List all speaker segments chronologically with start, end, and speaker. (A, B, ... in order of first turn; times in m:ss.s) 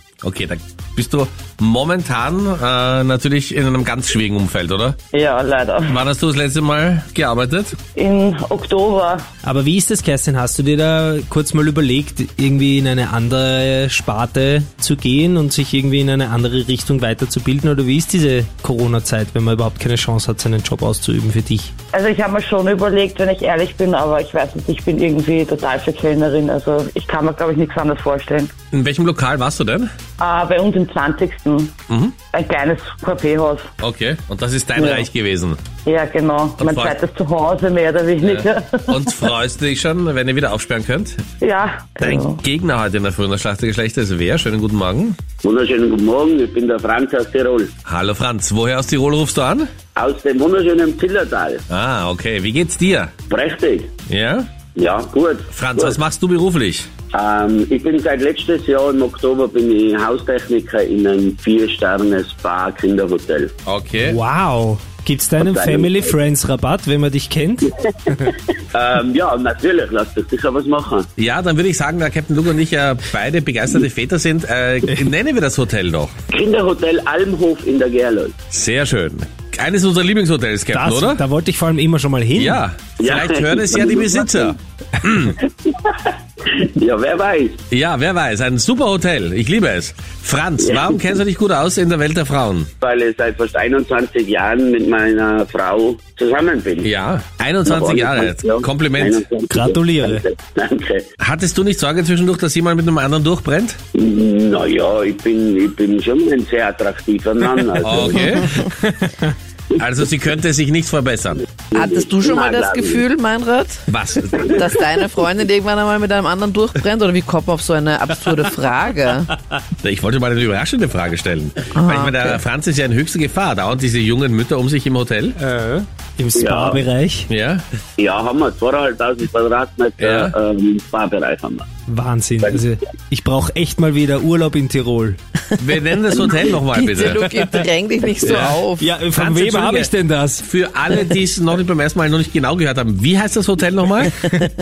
0:00.2-0:05.0 A
0:05.1-0:06.0 B
0:05.9-0:07.8 A
0:07.9-0:09.2 B
0:09.4-0:21.7 C
0:21.9-0:28.5 B
0:28.7-0:29.9 A
0:30.2-0:31.8 B
0:31.9-0:32.2 A
0:32.3-0:33.7 B
0:33.8-0:35.6 A
0:34.8-0:35.1 B
0:35.8-0:39.2 B
0:36.6-0:36.9 A
0:38.2-0:41.2 A
0:41.4-0:42.4 B
0:42.0-0:45.2 A
0:45.4-0:47.7 D
0:47.8-0:49.7 A
0:49.9-0:51.6 D
0:51.7-0:53.1 A
0:53.3-0:53.9 D
0:54.1-0:54.5 A
0:54.7-0:56.0 D
0:55.5-0:56.9 A
0:57.1-1:03.5 D
1:03.6-1:04.2 A
1:04.0-1:08.3 C
1:05.4-1:06.1 D
1:08.7-1:11.1 D
1:11.2-1:16.1 A
1:16.3-1:18.4 D
1:18.5-1:21.2 A
1:20.7-1:22.6 C
1:22.4-1:25.4 A
1:23.0-1:24.5 D
1:25.4-1:27.6 D
1:27.7-1:32.7 A
1:30.6-1:31.0 D
1:32.8-1:36.9 D
1:36.8-1:39.2 A
1:37.6-1:41.0 D
1:39.5-1:40.2 C
1:41.2-1:43.8 A
1:43.9-1:48.4 D
1:47.8-1:48.7 A
1:49.8-1:51.4 A
1:51.7-1:53.0 D
1:51.7-1:53.8 E
1:53.9-1:54.6 A
1:54.4-1:59.3 E
1:59.8-2:05.4 A
2:01.7-2:02.4 E
2:05.4-2:07.3 C
2:06.4-2:06.8 D
2:07.3-2:07.6 A
2:08.0-2:11.7 D
2:10.0-2:10.3 A
2:11.9-2:15.2 C
2:15.6-2:17.3 A
2:16.7-2:18.9 E
2:18.2-2:18.6 A
2:18.2-2:20.4 C
2:19.1-2:19.9 A
2:20.4-2:24.1 A